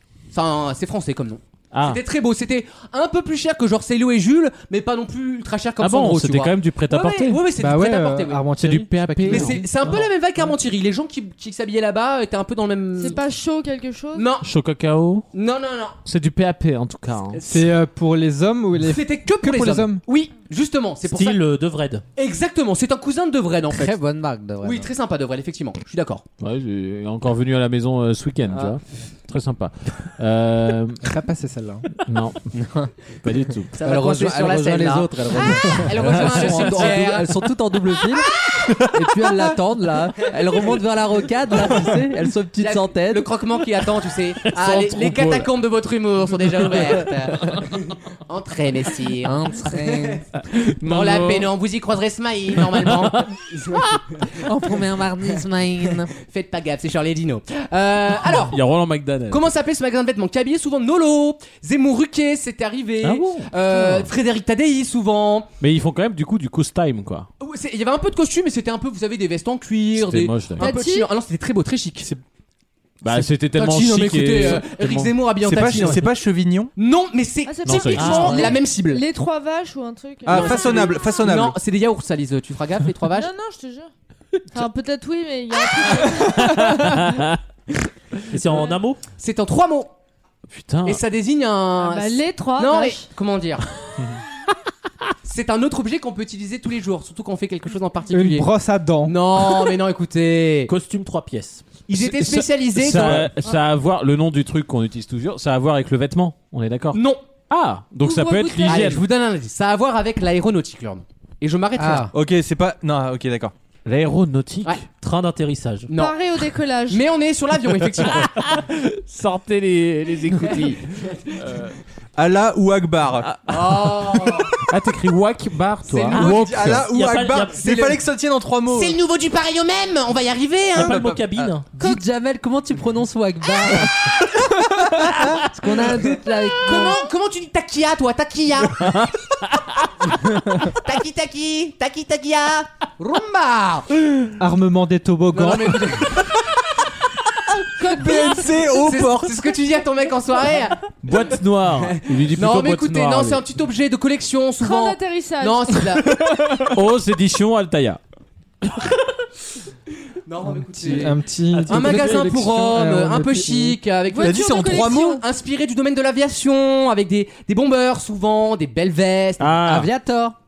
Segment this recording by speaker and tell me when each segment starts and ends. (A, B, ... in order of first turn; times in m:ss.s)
0:00.3-0:08.4 A
0:01.7-0:02.0 B
0:05.8-0:07.4 B
0:07.6-0:09.9 C
0:08.6-0:09.6 B
0:09.2-0:13.2 A
0:13.0-0:14.3 D
0:14.1-0:14.4 A
0:14.4-0:15.3 B
0:15.3-0:15.9 A
0:16.0-0:17.4 B
0:17.3-0:17.7 A
0:17.4-0:20.0 C
0:18.8-0:21.4 A
0:21.1-0:22.0 E
0:22.2-0:23.9 A
0:23.7-0:24.9 F
0:24.6-0:26.2 A
0:26.4-0:31.0 B
0:31.0-0:31.9 C
0:32.0-0:32.5 B
0:32.5-0:32.9 F
0:33.2-0:33.7 B
0:33.7-0:37.4 A
0:33.8-0:38.3 F
0:38.9-0:43.3 F
0:42.6-0:50.2 A
0:44.5-0:45.5 B
0:46.8-0:47.5 B
0:49.2-0:50.2 F
0:50.5-0:51.5 B
0:50.8-0:54.4 A
0:52.7-0:53.2 B
0:54.3-0:56.1 F
0:56.1-0:58.6 A
0:58.3-0:59.5 B
0:59.3-1:05.5 A
1:03.0-1:03.5 B
1:03.6-1:04.1 D
1:05.6-1:07.3 B
1:07.4-1:12.1 A
1:09.9-1:10.7 B
1:10.6-1:11.1 D
1:13.0-1:15.1 B
1:13.2-1:16.1 A
1:15.4-1:16.7 G
1:16.8-1:19.0 A
1:17.4-1:20.9 D
1:17.6-1:18.4 B
1:18.0-1:18.5 E
1:20.2-1:21.6 G
1:20.3-1:23.3 A
1:23.2-1:23.9 D
1:24.5-1:27.0 D
1:26.1-1:27.4 B
1:28.3-1:29.0 E
1:29.2-1:29.9 A
1:30.5-1:31.0 B
1:30.8-1:33.6 A
1:31.8-1:33.1 D
1:35.2-1:38.5 A
1:38.1-1:39.2 C
1:39.0-1:40.7 A
1:40.7-1:41.8 E
1:41.9-1:43.3 A
1:42.0-1:47.0 B
1:46.9-1:47.2 A
1:47.5-1:49.0 B
1:48.0-1:48.8 D
1:48.1-1:52.1 A
1:51.8-1:52.1 F
1:52.1-1:53.5 G
1:53.8-1:54.8 B
1:55.0-1:55.9 E
1:55.9-1:56.2 A
1:55.9-1:57.0 D
1:56.9-1:58.4 A
1:58.3-2:00.8 B
2:01.3-2:01.7 B
2:02.2-2:03.3 G
2:03.2-2:04.0 B
2:03.5-2:04.5 A
2:04.7-2:06.8 B
2:05.8-2:06.4 A
2:06.1-2:09.0 G
2:06.9-2:07.6 E
2:07.5-2:08.0 A
2:08.7-2:11.2 A
2:10.7-2:11.7 E
2:11.4-2:13.9 F
2:15.3-2:17.0 F
2:16.6-2:19.0 A
2:18.8-2:19.8 B
2:20.1-2:24.0 A
2:24.4-2:26.0 C
2:25.3-2:26.3 A
2:27.8-2:29.3 G
2:27.8-2:28.5 D
2:28.7-2:30.8 A
2:31.0-2:33.4 B
2:31.8-2:36.2 A
2:34.6-2:35.7 D
2:36.6-2:38.0 B
2:40.2-2:49.6 A
2:40.7-2:43.8 C
2:44.1-2:45.2 D
2:44.2-2:45.2 G
2:49.4-2:49.9 B
2:49.6-2:50.4 F